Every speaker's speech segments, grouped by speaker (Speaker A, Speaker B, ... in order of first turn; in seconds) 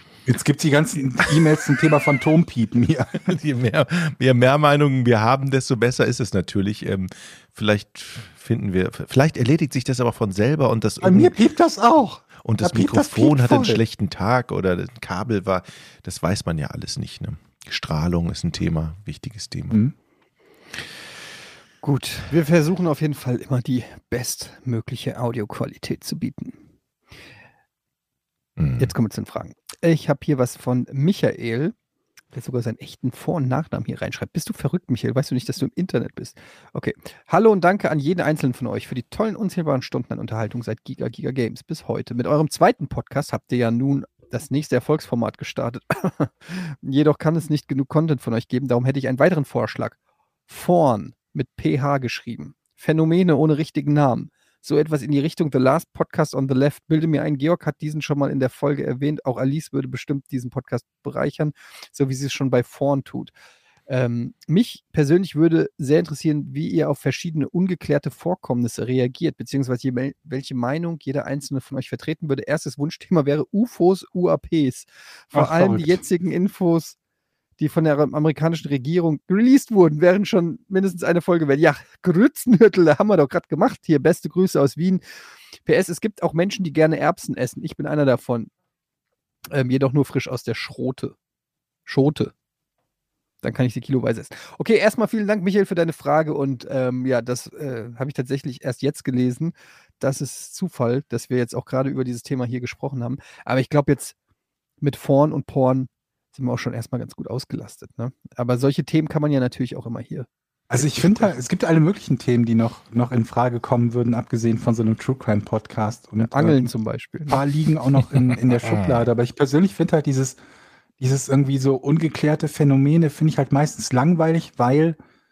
Speaker A: 0.3-3.3, 11.0-13.8, 75.3-76.0, 110.7-116.7, 117.3-120.4, 121.0-125.0
Speaker B: 3.2-11.4, 12.4-19.8, 28.6-28.9, 118.6-119.0
Speaker C: 21.8-26.6, 28.8-31.7, 32.3-50.0, 50.5-63.3, 63.9-77.0, 77.6-85.0, 85.7-88.5, 89.5-91.2, 91.9-92.3, 93.4-104.2, 104.8-111.3, 116.2-117.4